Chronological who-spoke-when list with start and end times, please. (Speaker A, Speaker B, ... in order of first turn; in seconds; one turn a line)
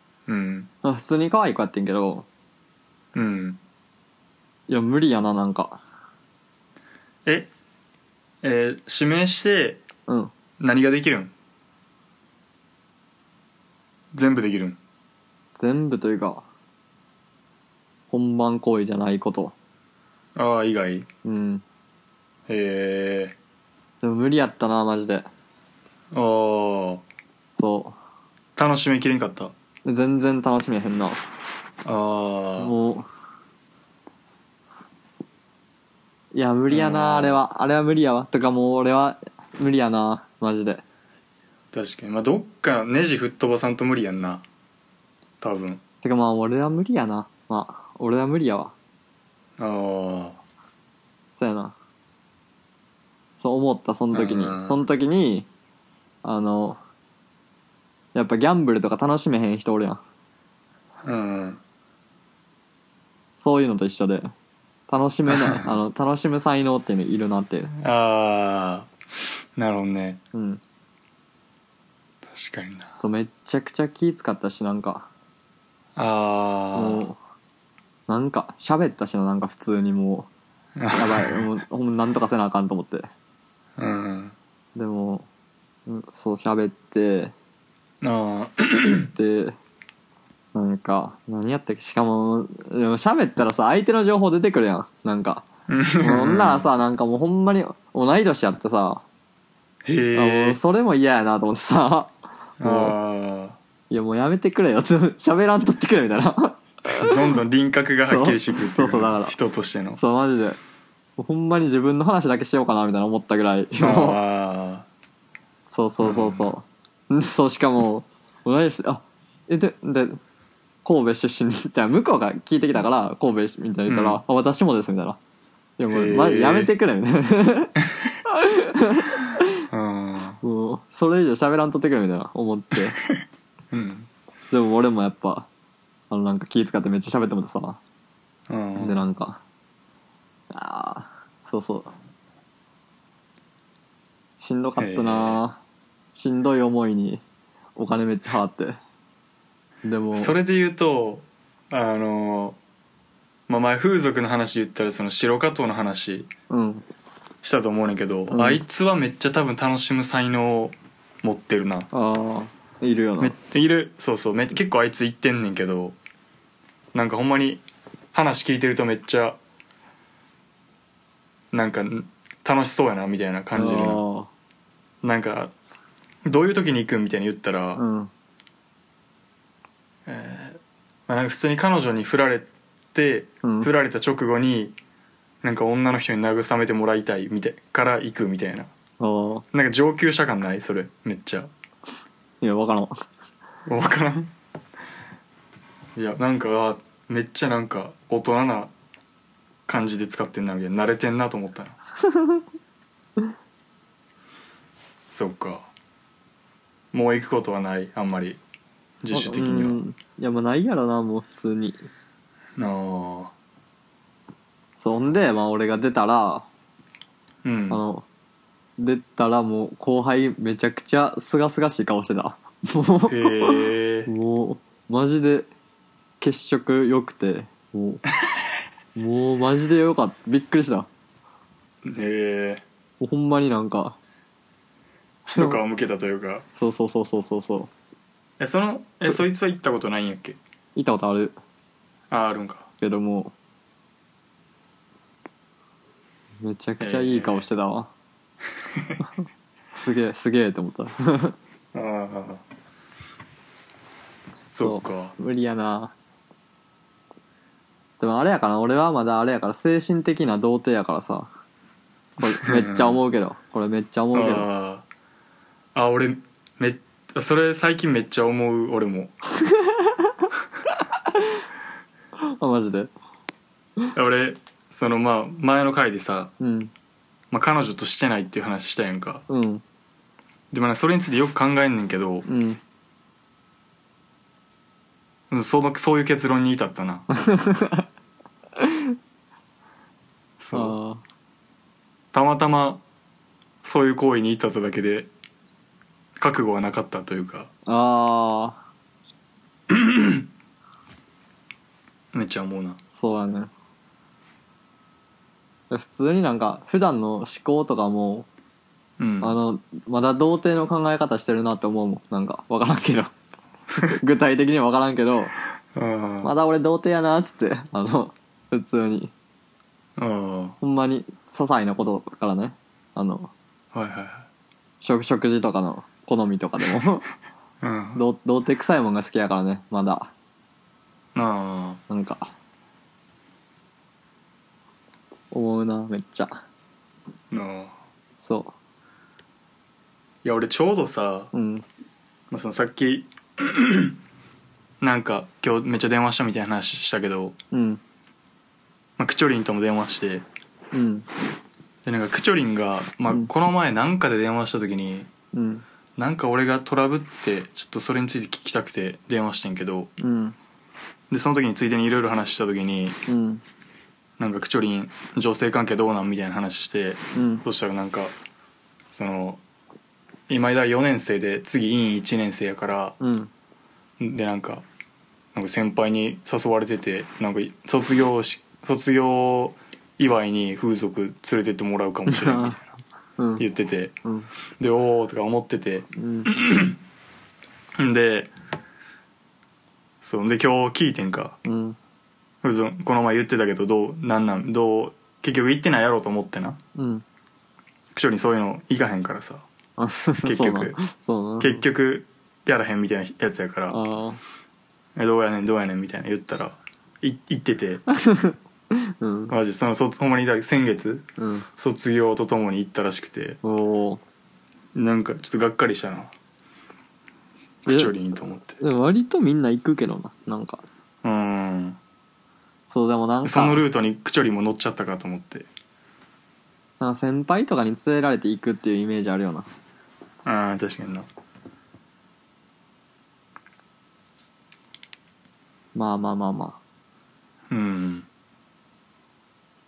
Speaker A: 0.3-0.7
Speaker B: 0.8-2.2
Speaker A: 3.1-3.6
Speaker B: 4.7-5.8
Speaker A: 7.2-7.5
Speaker A: 8.4-9.8
Speaker B: 10.1-10.3
Speaker A: 10.6-11.3
Speaker A: 14.1-14.8
Speaker B: 15.6-16.4
Speaker B: 18.1-19.5
Speaker A: 20.3-21.1
Speaker B: 21.2-21.6
Speaker A: 22.5-23.4
Speaker B: 24.0-25.3
Speaker A: 26.1-27.0
Speaker B: 27.5-27.9
Speaker A: 28.6-29.5
Speaker B: 29.8-31.2
Speaker A: 31.8-32.7
Speaker B: 32.6-33.1
Speaker B: 36.3-40.8
Speaker A: 36.7-37.4
Speaker A: 41.7-44.4
Speaker A: 45.4-45.8
Speaker B: 46.0-48.7
Speaker A: 49.6-50.4
Speaker B: 51.3-51.7
Speaker B: 53.4-55.5
Speaker A: 54.1-54.8
Speaker B: 56.2-56.8
Speaker B: 58.1-60.0
Speaker A: 61.0-61.6
Speaker B: 63.4-64.3
Speaker B: 64.9-67.7
Speaker A: 65.3-65.7
Speaker A: 67.8-68.9
Speaker A: 69.5-70.2
Speaker B: 70.3-70.6
Speaker A: 72.3-72.9
Speaker B: 73.0-75.1
Speaker A: 76.0-77.0
Speaker B: 76.7-77.2
Speaker B: 78.1-80.3
Speaker A: 80.8-81.4
Speaker B: 80.9-83.1
Speaker A: 83.8-84.3
Speaker B: 84.8-85.3
Speaker B: 85.9-87.3
Speaker A: 88.0-89.1
Speaker B: 89.1-89.5
Speaker B: 90.5-95.4
Speaker A: 95.7-96.6
Speaker B: 96.0-99.0
Speaker A: 99.8-100.6
Speaker B: 100.2-102.9
Speaker A: 102.6-103.6
Speaker B: 103.9-107.2
Speaker A: 106.9-110.0
Speaker B: 108.0-109.3
Speaker B: 110.0-110.6
Speaker B: 111.2-114.2
Speaker A: 113.8-114.8
Speaker B: 115.7-120.2
Speaker A: 116.0-116.5
Speaker B: 120.8-125.2
Speaker A: 123.9-124.2
Speaker B: 125.8-127.8
Speaker A: 125.9-126.7
Speaker B: 128.3-129.6
Speaker A: 129.7-130.4
Speaker B: 130.4-133.0
Speaker A: 133.1-134.1
Speaker B: 134.5-135.5
Speaker B: 136.1-137.8
Speaker A: 138.5-138.9
Speaker B: 138.8-139.4
Speaker B: 140.5-141.9
Speaker B: 144.4-145.6
Speaker A: 144.8-145.4
Speaker B: 146.1-147.2
Speaker B: 147.8-148.8
Speaker B: 149.8-150.3
Speaker A: 150.2-152.6
Speaker A: 153.5-156.3
Speaker B: 156.5-156.8
Speaker A: 157.4-161.9
Speaker B: 158.3-158.6
Speaker B: 161.9-163.3
Speaker A: 163.2-165.9
Speaker A: 166.9-169.4
Speaker A: 171.5-174.0
Speaker B: 173.5-174.3
Speaker A: 175.0-175.5
Speaker A: 176.2-177.8
Speaker B: 177.8-178.1
Speaker A: 180.1-184.7
Speaker B: 183.4-183.7
Speaker A: 185.4-188.7
Speaker B: 189.0-189.4
Speaker A: 189.5-191.5
Speaker B: 192.4-192.9
Speaker A: 193.7-194.3
Speaker A: 195.9-198.7
Speaker A: 199.7-201.8
Speaker B: 202.0-202.4
Speaker A: 205.1-205.7
Speaker A: 206.9-208.4
Speaker A: 209.0-209.8
Speaker B: 209.1-211.8
Speaker A: 212.6-213.3
Speaker B: 214.8-216.5
Speaker A: 217.4-217.8
Speaker B: 217.7-218.1
Speaker B: 218.8-225.5
Speaker A: 223.1-224.1
Speaker B: 226.2-228.0
Speaker B: 228.9-230.9
Speaker A: 231.8-232.6
Speaker B: 233.0-233.9
Speaker A: 235.2-236.4
Speaker B: 235.3-235.6
Speaker B: 236.6-237.7
Speaker A: 238.4-240.4
Speaker B: 240.7-241.3
Speaker A: 242.1-242.7
Speaker B: 242.8-243.3
Speaker B: 246.4-247.9
Speaker A: 246.8-247.4
Speaker B: 249.7-251.3
Speaker A: 251.7-252.4
Speaker A: 254.5-255.1
Speaker B: 254.5-255.9
Speaker B: 258.0-261.3
Speaker B: 262.2-264.5
Speaker A: 262.4-263.0
Speaker A: 264.1-264.8
Speaker A: 265.7-269.1
Speaker B: 269.5-269.9
Speaker B: 272.2-272.9
Speaker A: 273.9-276.3
Speaker B: 276.4-276.7
Speaker A: 277.3-279.2
Speaker B: 279.3-279.6
Speaker A: 280.5-282.2
Speaker B: 282.2-282.6
Speaker A: 285.3-287.0
Speaker B: 287.1-287.9
Speaker A: 290.4-290.7
Speaker B: 290.5-291.0
Speaker A: 292.1-292.8
Speaker A: 293.6-295.1
Speaker A: 296.2-297.5
Speaker B: 297.6-298.6
Speaker A: 299.7-300.3
Speaker A: 302.1-302.8
Speaker B: 302.9-303.5
Speaker B: 305.7-308.3
Speaker A: 309.0-309.3
Speaker B: 309.2-313.1
Speaker B: 313.8-315.3
Speaker A: 315.7-316.3
Speaker B: 316.2-319.1
Speaker A: 320.0-320.6
Speaker B: 320.6-323.3
Speaker A: 323.7-324.3
Speaker B: 324.8-327.0
Speaker A: 327.6-328.0
Speaker B: 327.9-330.1
Speaker A: 331.1-331.8
Speaker B: 331.9-332.3
Speaker B: 335.3-336.4
Speaker A: 337.3-337.7
Speaker B: 338.2-338.5
Speaker A: 340.2-341.3
Speaker B: 341.3-341.6
Speaker A: 342.3-344.0
Speaker A: 344.8-347.4
Speaker B: 347.5-347.8
Speaker A: 349.0-350.2
Speaker B: 350.7-351.1
Speaker A: 351.8-355.1
Speaker B: 355.3-355.6
Speaker A: 356.0-359.9
Speaker B: 360.0-360.3
Speaker A: 361.1-363.0
Speaker B: 363.1-363.4
Speaker A: 364.2-368.1
Speaker B: 367.1-367.4
Speaker A: 368.9-369.4
Speaker A: 370.3-372.9
Speaker B: 373.0-373.3
Speaker A: 374.0-374.6
Speaker A: 375.3-382.6
Speaker B: 382.1-382.6
Speaker B: 383.2-383.4
Speaker A: 383.4-383.9
Speaker A: 384.6-386.8
Speaker B: 385.9-386.3
Speaker A: 387.8-388.3
Speaker A: 390.0-391.4
Speaker B: 391.4-391.8
Speaker A: 392.4-396.6
Speaker B: 396.7-397.0
Speaker A: 397.9-399.4
Speaker B: 399.8-401.6
Speaker A: 400.2-400.8
Speaker A: 401.4-403.8
Speaker B: 403.7-404.2
Speaker A: 404.9-407.8
Speaker B: 407.9-409.3
Speaker A: 409.3-413.4
Speaker B: 411.2-411.5
Speaker B: 413.4-414.0
Speaker A: 414.7-416.1
Speaker A: 417.6-418.6
Speaker B: 417.7-417.9
Speaker B: 418.6-420.6
Speaker A: 421.0-421.8
Speaker B: 422.7-423.6
Speaker A: 423.2-425.5
Speaker B: 426.8-429.5
Speaker A: 430.2-431.1
Speaker B: 435.7-436.6
Speaker A: 437.5-438.1